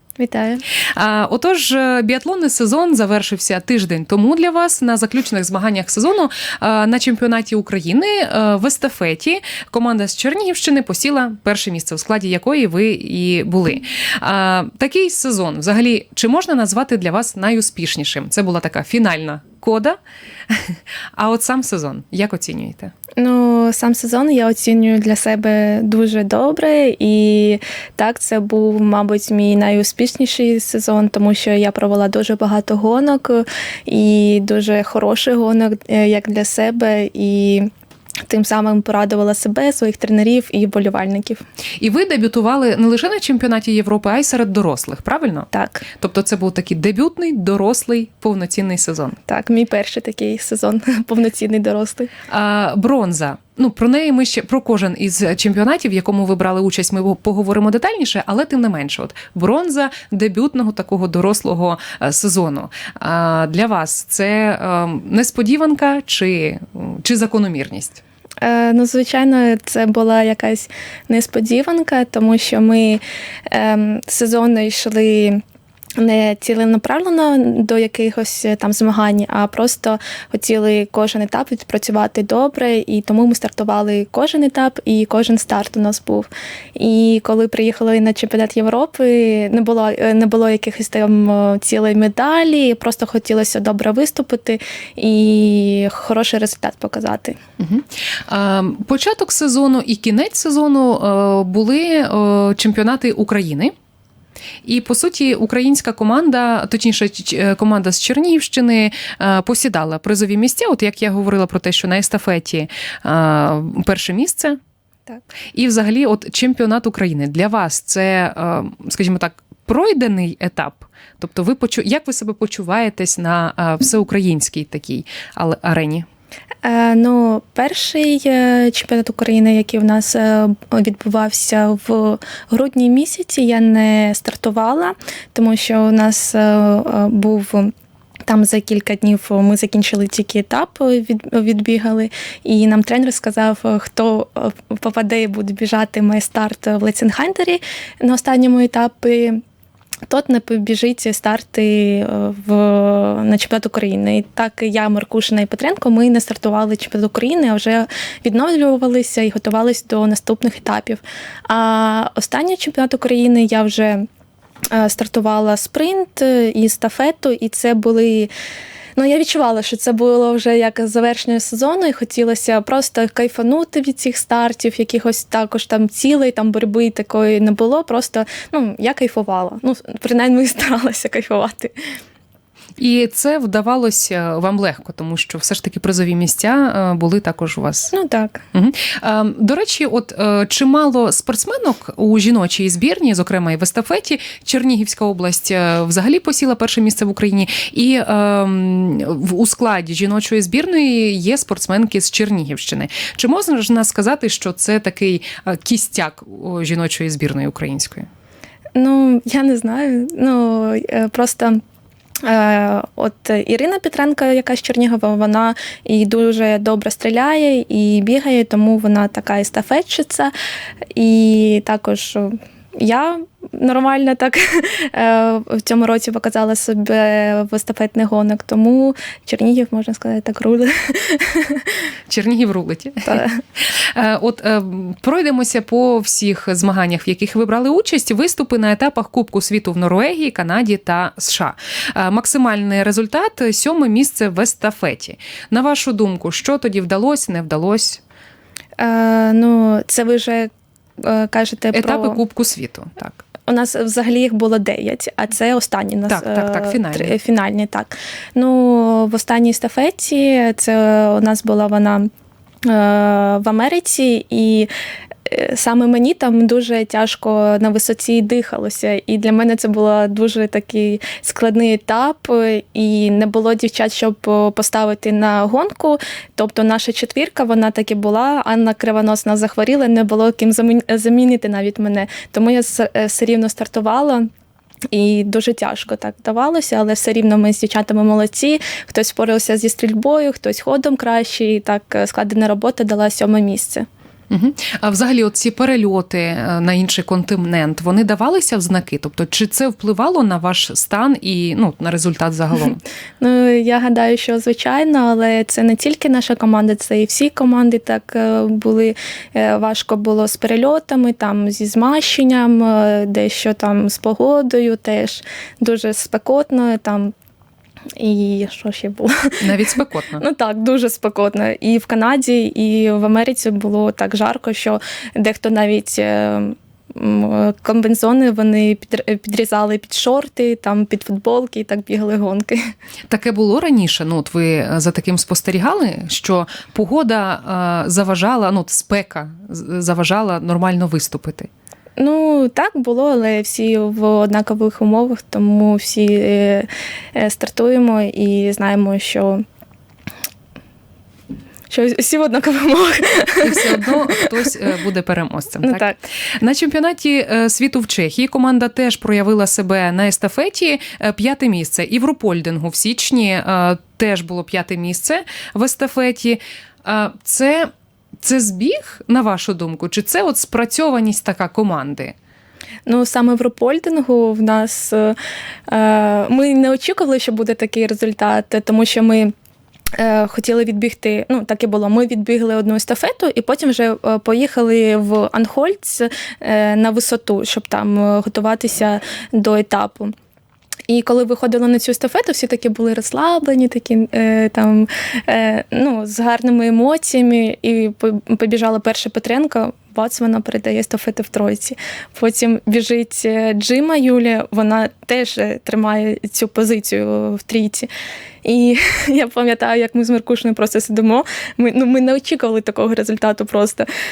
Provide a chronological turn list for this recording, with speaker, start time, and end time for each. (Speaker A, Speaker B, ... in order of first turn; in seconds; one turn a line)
Speaker A: 0.2-0.6
Speaker B: 0.9-20.0
Speaker B: 20.5-22.9
Speaker A: 23.2-37.7
Speaker A: 38.3-41.4
Speaker B: 41.8-49.2
Speaker A: 45.5-45.9
Speaker A: 49.3-52.1
Speaker B: 52.3-68.0
Speaker A: 68.4-75.4
Speaker A: 76.0-97.4
Speaker B: 97.6-103.7
Speaker B: 104.7-114.6
Speaker B: 115.5-126.1
Speaker A: 126.6-137.7
Speaker A: 138.3-149.4
Speaker A: 150.1-164.1
Speaker A: 164.7-168.3
Speaker A: 169.0-181.7
Speaker B: 182.8-187.9
Speaker A: 187.9-188.4
Speaker B: 188.5-208.1
Speaker A: 208.8-211.6
Speaker A: 212.2-220.3
Speaker A: 220.9-231.8
Speaker B: 232.1-248.0
Speaker A: 233.1-233.4
Speaker A: 248.8-250.5
Speaker A: 251.0-252.2
Speaker B: 251.7-253.2
Speaker A: 253.5-262.1
Speaker B: 256.1-257.1
Speaker A: 262.6-264.7
Speaker A: 265.3-284.3
Speaker A: 284.9-293.9
Speaker B: 294.3-302.8
Speaker A: 303.2-317.1
Speaker A: 318.0-319.5
Speaker B: 319.4-320.2
Speaker A: 320.2-332.6
Speaker B: 333.1-341.5
Speaker A: 342.0-349.4
Speaker A: 351.7-354.4
Speaker B: 353.4-367.7
Speaker A: 355.6-356.0
Speaker B: 368.2-372.1
Speaker A: 372.9-375.2
Speaker A: 375.7-379.3
Speaker A: 380.0-390.1
Speaker A: 390.9-407.9
Speaker A: 408.4-413.9